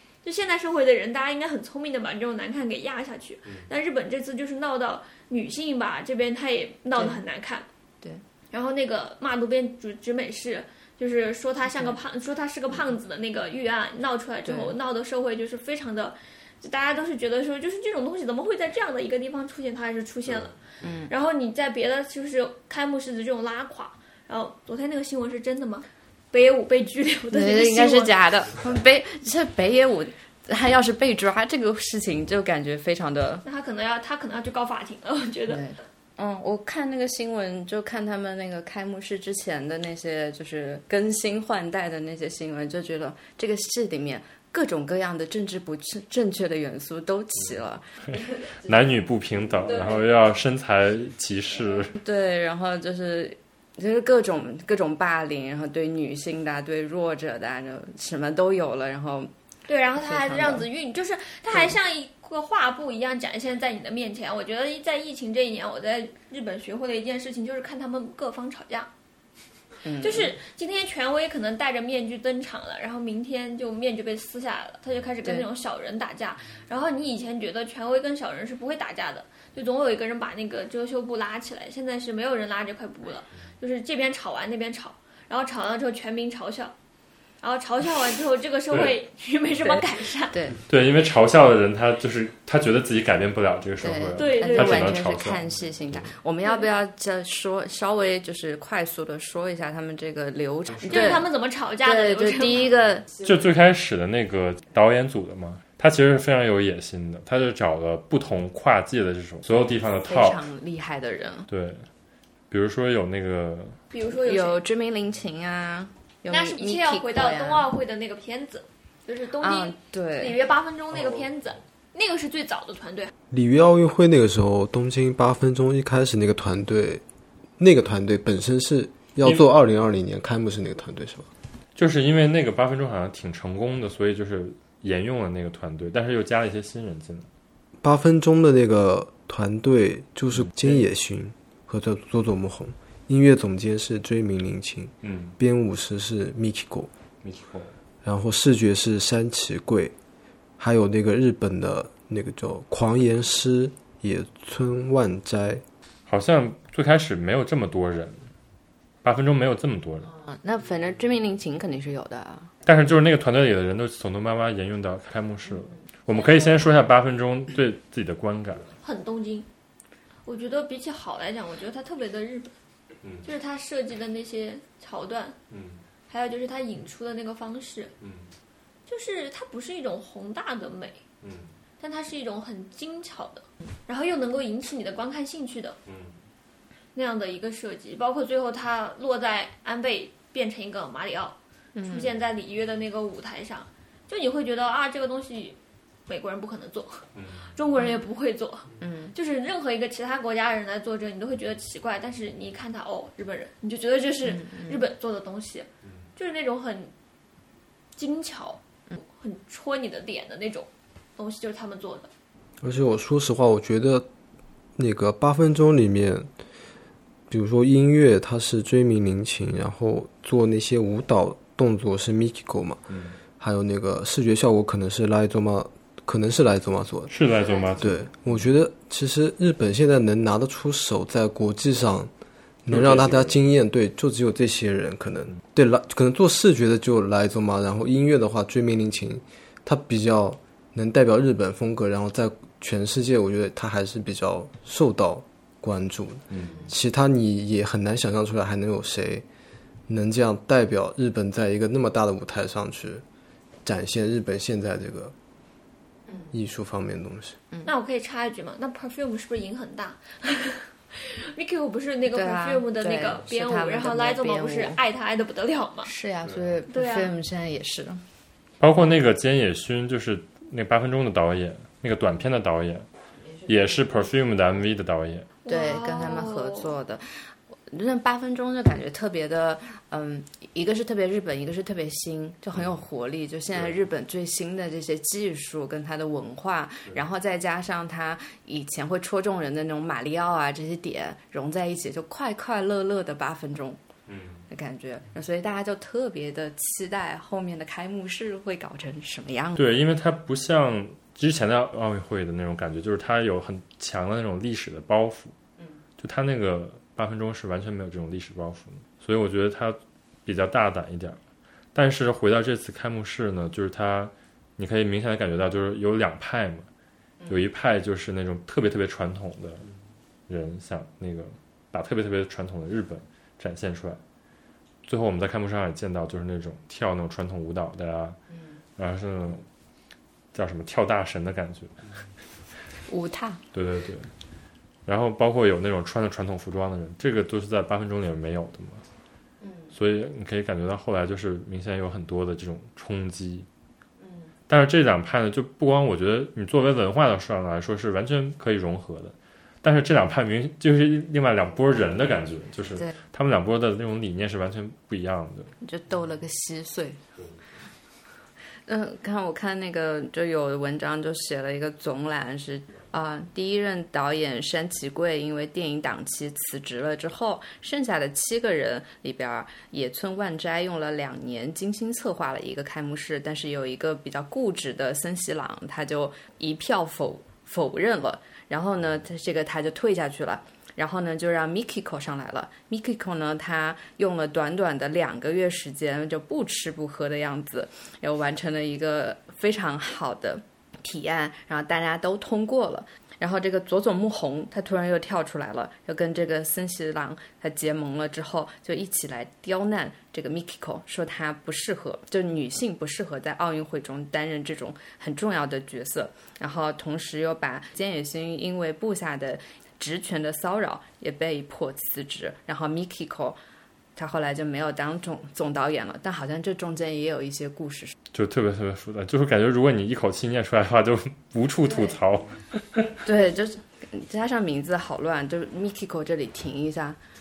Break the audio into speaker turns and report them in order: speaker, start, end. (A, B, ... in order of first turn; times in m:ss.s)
0:00.2-0:07.7 A
0:08.5-0:20.6 A
0:14.4-0:14.8 B
0:20.8-0:21.1 B
0:21.1-0:28.1 A
0:27.3-0:33.4 B
0:33.4-0:35.6 A
0:35.5-0:48.2 B
0:48.1-0:51.9 C
0:51.9-0:59.3 B
0:59.7-1:08.9 A
1:00.0-1:00.7 B
1:09.8-1:10.4 B
1:10.0-1:26.7 A
1:27.4-1:30.3 A
1:28.7-1:29.0 C
1:29.6-1:30.6 B
1:30.6-1:36.1 C
1:33.8-1:41.3 B
1:34.2-1:35.0 A
1:40.8-1:41.2 C
1:40.9-1:42.7 A
1:41.8-1:43.2 B
1:43.2-1:50.4 C
1:50.0-1:51.5 B
1:51.5-1:51.9 C
1:52.5-1:53.8 C
1:53.9-1:54.6 A
1:54.1-1:57.7 B
1:56.3-2:03.1 A
1:59.4-2:00.4 B
2:03.3-2:07.0 D
2:07.6-2:11.3 D
2:11.8-2:17.3 C
2:17.8-2:26.9 D
2:20.3-2:20.8 C
2:25.0-2:25.4 C
2:27.2-2:27.7 C
2:28.0-2:29.9 D
2:30.6-2:35.6 D
2:36.1-2:38.3 C
2:39.0-2:40.1 C
2:40.2-2:42.5 B
2:42.6-2:48.7 C
2:48.8-2:49.5 A
2:50.3-2:52.5 A
2:53.0-2:53.3 C
2:53.2-2:55.4 A
2:55.5-2:55.8 C
2:56.1-2:57.9 A
2:58.0-2:58.3 C
2:58.9-3:01.0 A
3:01.2-3:01.5 C
3:01.8-3:05.8 A
3:05.9-3:06.2 C
3:07.0-3:26.9 A
3:11.8-3:12.1 B
3:17.2-3:17.5 C
3:18.8-3:19.1 B
3:24.3-3:24.8 B
3:28.0-3:32.1 A
3:32.6-3:34.1 D
3:34.8-3:36.3 D
3:37.3-3:42.8 D
3:42.9-3:43.2 C
3:43.4-3:47.1 D
3:47.1-3:48.4 C
3:47.8-3:52.1 D
3:52.6-4:09.2 D
3:52.7-3:53.4 C
4:06.3-4:06.6 C
4:09.9-4:13.0 D
4:13.6-4:15.1 D
4:16.3-4:17.4 D
4:17.7-4:25.9 A
4:22.1-4:24.8 B
4:25.8-4:28.0 B
4:26.2-4:26.6 C
4:26.7-4:27.1 A
4:28.6-4:32.9 C
4:33.3-4:34.0 B
4:33.5-4:35.3 C
4:35.4-4:36.7 A
4:35.5-4:53.8 B
4:54.1-4:54.5 C
4:54.5-4:59.6 B
4:59.6-5:05.3 C
5:06.0-5:11.2 C
5:11.8-5:16.7 C
5:17.3-5:19.7 C
5:20.3-5:24.0 C
5:24.9-5:28.2 C
5:28.8-5:29.4 C
5:30.3-5:31.8 C
5:32.9-5:33.4 B
5:33.5-5:34.1 C
5:34.9-5:38.8 C
5:39.4-5:39.7 B
5:39.7-5:43.5 C
5:44.0-5:44.3 B
5:44.5-5:55.5 C
5:55.6-5:57.0 B
5:58.7-6:53.4 B
6:54.0-6:58.0 B
6:58.1-7:02.9 C
7:03.0-7:07.0 B